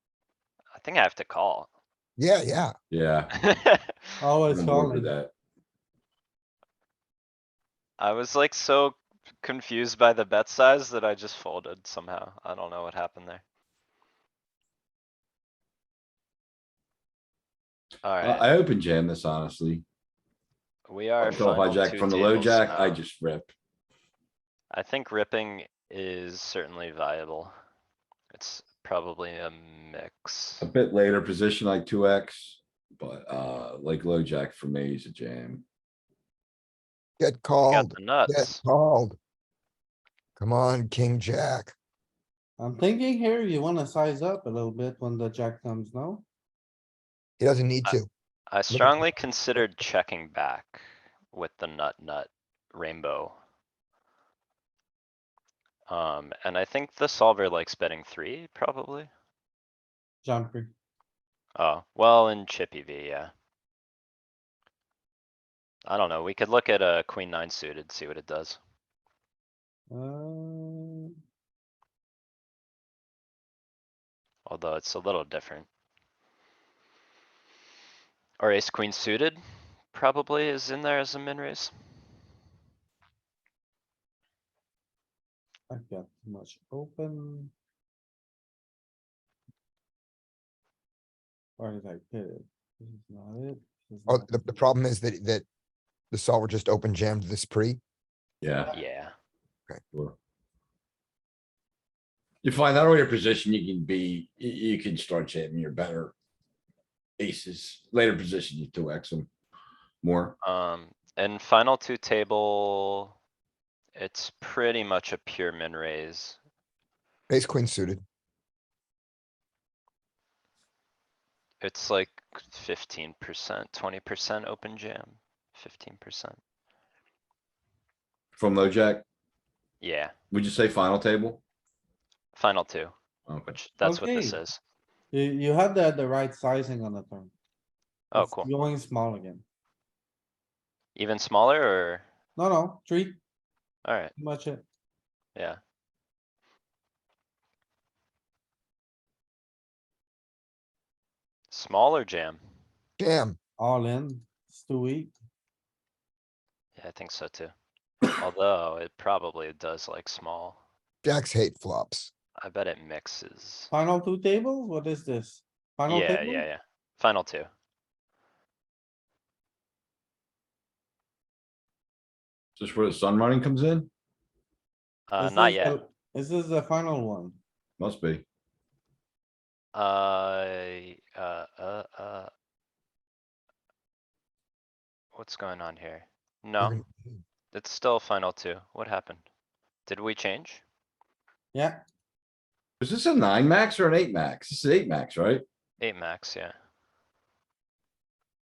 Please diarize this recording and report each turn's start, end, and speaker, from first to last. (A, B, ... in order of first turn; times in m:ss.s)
0:00.7-0:01.7 A
0:02.2-0:02.7 B
0:02.9-0:03.3 C
0:03.3-0:04.0 A
0:04.2-0:05.1 D
0:04.5-0:05.3 C
0:08.0-0:13.4 A
0:18.0-0:18.5 A
0:18.2-0:19.8 C
0:20.9-0:23.0 A
0:21.2-0:23.5 C
0:24.7-0:27.5 A
0:28.3-0:30.6 A
0:30.6-0:35.6 C
0:37.2-0:39.2 B
0:37.7-0:38.6 A
0:40.4-0:41.7 B
0:42.6-0:46.2 D
0:47.4-0:48.1 B
0:48.5-0:53.4 A
0:48.7-0:49.0 B
0:55.9-0:59.1 A
1:00.2-1:00.7 D
1:01.6-1:03.3 A
1:05.8-1:08.6 A
1:09.9-1:11.1 D
1:14.4-1:15.7 A
1:18.4-1:19.4 A
1:19.9-1:21.7 A
1:25.7-1:27.5 D
1:31.6-1:34.6 D
1:34.1-1:35.4 B
1:36.1-1:37.8 B
1:38.4-1:38.7 C
1:38.7-1:39.1 A
1:42.4-1:46.1 C
1:47.2-1:49.3 C
1:50.0-1:50.4 C
1:50.4-1:53.1 A
1:54.0-1:56.4 A
1:57.3-1:58.0 B
2:01.6-2:06.4 A
2:08.3-2:09.0 C
2:09.8-2:10.1 A
2:10.3-2:11.4 C
2:12.3-2:12.9 A
2:13.3-2:13.6 C
2:13.5-2:14.6 A
2:13.8-2:14.4 D
2:15.1-2:17.3 D
2:18.1-2:18.5 A
2:18.1-2:19.4 D
2:21.0-2:22.0 A
2:22.4-2:23.2 D
2:23.8-2:24.1 A
2:24.2-2:24.6 D
2:31.5-2:32.4 A
2:33.0-2:33.4 B
2:33.6-2:35.1 D
2:36.8-2:37.5 A
2:38.2-2:40.6 A
2:41.0-2:42.1 B
2:42.4-2:43.7 A
2:43.7-2:46.4 D
2:45.9-2:47.5 A
2:52.6-2:53.9 C
2:55.1-2:55.8 A
2:55.2-2:57.4 D
2:57.8-2:58.2 C
2:59.7-3:02.3 A
3:05.1-3:06.8 A
3:06.6-3:07.2 B
3:07.5-3:09.2 A
3:09.8-3:10.6 A
3:11.5-3:11.8 D
3:12.8-3:15.4 C
3:15.8-3:16.5 A